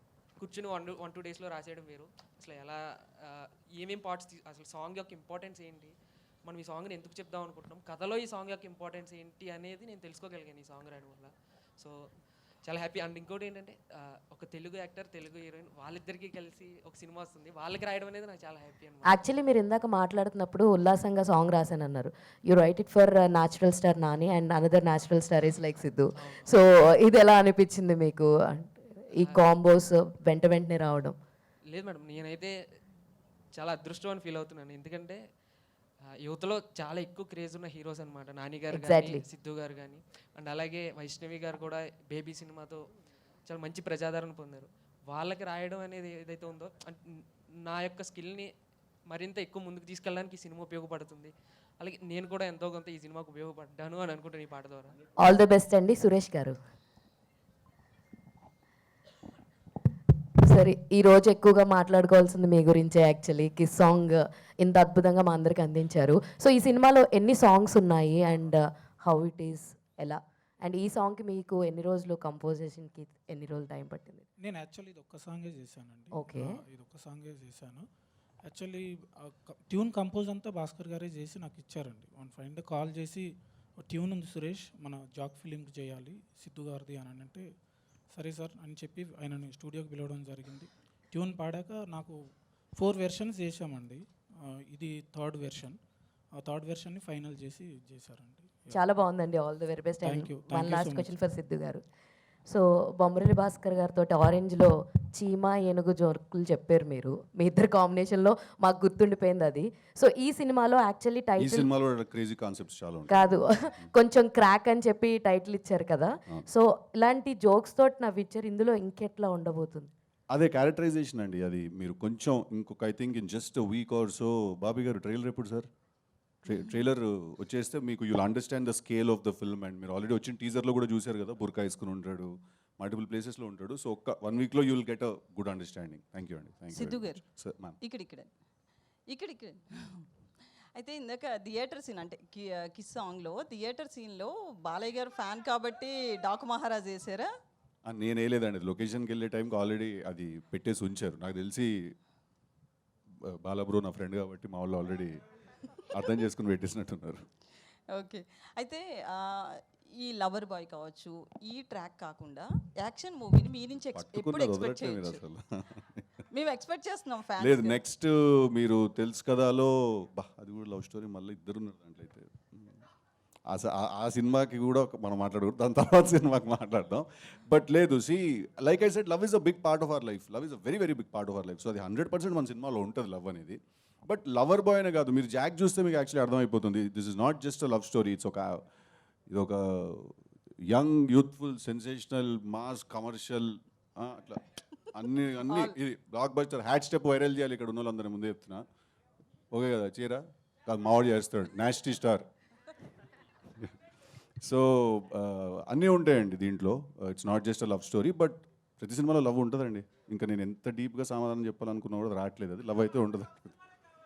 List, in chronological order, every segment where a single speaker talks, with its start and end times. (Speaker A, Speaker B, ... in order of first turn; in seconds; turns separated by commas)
Speaker A: 0.4-5.9, Speaker A: 6.4-11.9, Speaker A: 12.6-13.8, Speaker A: 14.3-19.2, Speaker B: 19.1-31.2, Speaker A: 26.2-26.5, Speaker A: 29.2-29.5, Speaker A: 31.7-32.5, Speaker A: 33.5-35.2, Speaker A: 36.2-42.8, Speaker B: 38.7-39.2, Speaker A: 43.5-47.0, Speaker A: 47.6-48.5, Speaker A: 49.1-54.9, Speaker B: 55.2-56.5, Speaker B: 60.4-74.2, Speaker C: 74.4-77.8, Speaker B: 76.1-76.5, Speaker C: 78.4-83.3, Speaker C: 83.9-87.4, Speaker C: 88.1-92.1, Speaker C: 92.8-94.0, Speaker C: 94.7-95.8, Speaker C: 96.3-98.8, Speaker B: 98.7-101.8, Speaker C: 100.0-101.2, Speaker B: 102.5-111.7, Speaker D: 111.4-113.8, Speaker B: 113.1-119.9, Speaker D: 120.3-125.7, Speaker D: 126.4-137.8, Speaker E: 136.7-137.2, Speaker E: 137.8-138.3, Speaker E: 139.1-140.1, Speaker E: 140.7-147.3, Speaker D: 147.8-151.9, Speaker D: 153.2-155.2, Speaker D: 155.9-157.2, Speaker E: 157.9-159.2, Speaker E: 160.0-165.2, Speaker D: 163.8-166.1, Speaker E: 166.3-167.8, Speaker D: 167.4-172.8, Speaker D: 173.5-188.6, Speaker D: 189.3-190.2, Speaker D: 190.7-194.4, Speaker D: 194.9-198.6, Speaker D: 199.5-202.3, Speaker D: 204.4-213.5